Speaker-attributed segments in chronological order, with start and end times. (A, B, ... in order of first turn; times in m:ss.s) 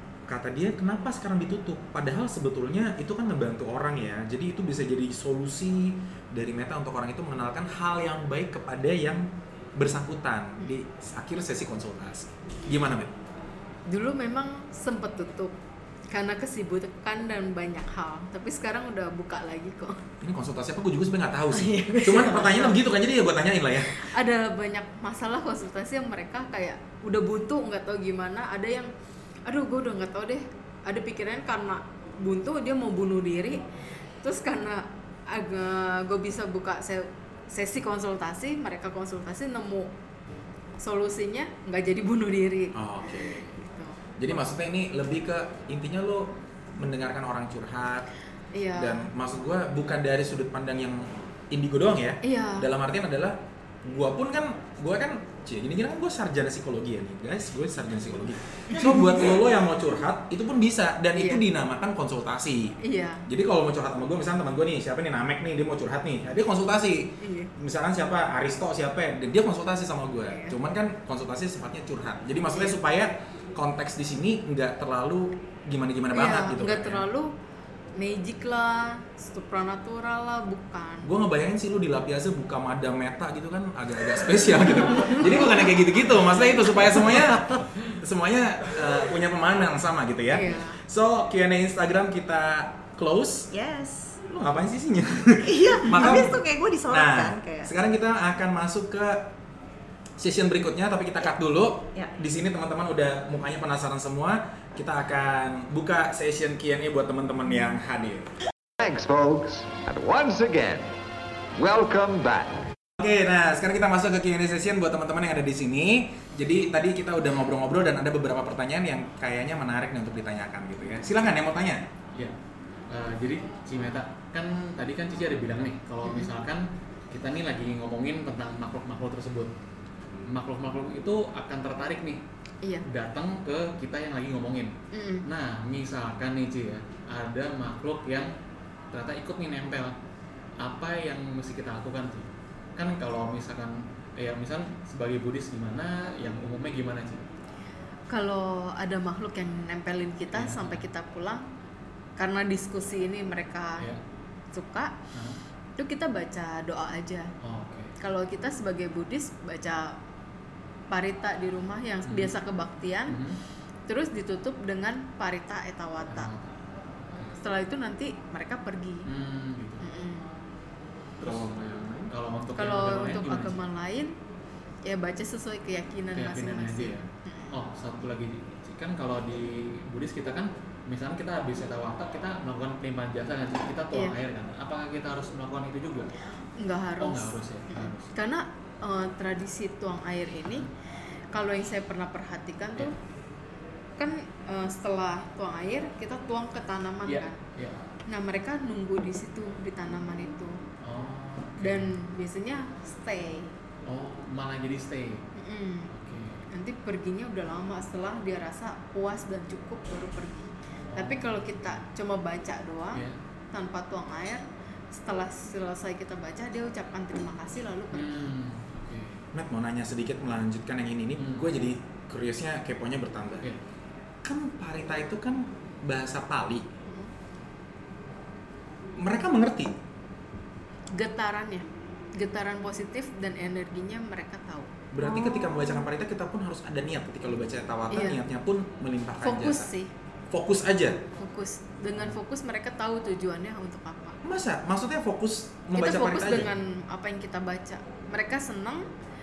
0:00.3-0:13.1 A
0:13.9-0:15.6 B
0:16.1-0:20.0 B
0:20.2-0:24.0 A
0:21.5-0:22.8 C
0:24.0-0:28.9 B
0:29.5-0:33.6 B
0:34.2-0:39.9 B
0:40.8-0:44.0 B
0:42.8-0:43.5 A
0:44.2-0:48.1 A
0:48.5-0:49.1 B
0:48.8-1:17.0 A
0:52.2-0:52.7 B
1:01.2-1:01.4 B
1:02.8-1:03.2 B
1:07.2-1:07.5 B
1:10.3-1:10.6 B
1:12.5-1:12.8 B
1:16.1-1:17.3 B
1:18.0-1:21.1 B
1:21.0-1:33.5 A
1:30.3-1:30.8 B
1:33.5-1:34.2 C
1:34.3-1:39.3 A
1:35.4-1:37.7 C
1:40.2-1:48.3 A
1:48.8-1:50.9 D
1:51.6-1:52.6 D
1:53.0-2:01.8 A
2:02.9-2:09.5 E
2:06.0-2:06.3 B
2:10.2-2:12.2 E
2:12.8-2:14.7 E
2:14.9-2:15.2 B
2:15.2-2:18.3 E
2:18.9-2:20.0 E
2:20.6-2:27.2 E
2:28.1-2:31.5 B
2:30.3-2:30.8 E
2:32.2-2:33.9 B
2:34.5-2:35.0 B
2:35.1-2:35.4 E
2:35.8-2:37.3 B
2:37.4-2:37.9 E
2:38.0-2:40.0 B
2:40.9-2:43.2 B
2:42.1-2:42.3 E
2:43.1-2:43.4 E
2:43.9-2:46.3 B
2:46.1-2:46.6 E
2:47.4-2:49.1 B
2:49.1-2:49.9 E
2:49.8-2:50.3 B
2:51.2-2:53.6 E
2:52.6-2:54.1 B
2:54.9-2:57.5 B
2:56.1-3:06.1 E
3:06.6-3:10.7 B
3:07.0-3:08.1 E
3:11.3-3:12.9 B
3:14.0-3:17.4 B
3:17.0-3:17.8 E
3:18.1-3:20.6 B
3:20.8-3:22.0 E
3:21.6-3:23.5 B
3:23.9-3:25.2 E
3:25.4-3:25.9 B
3:25.9-3:26.4 E
3:26.5-3:38.2 B
3:30.9-3:31.8 E
3:37.9-3:39.2 E
3:39.3-3:43.5 A
3:41.2-3:41.6 E
3:44.2-3:46.7 A
3:49.0-3:49.8 A
3:50.9-3:54.7 B
3:54.9-3:59.7 A
3:55.0-3:55.9 C
3:57.9-3:58.2 B
3:59.2-3:59.9 B
4:00.3-4:01.0 A
4:01.2-4:04.2 B
4:04.2-4:06.5 A
4:05.8-4:08.9 B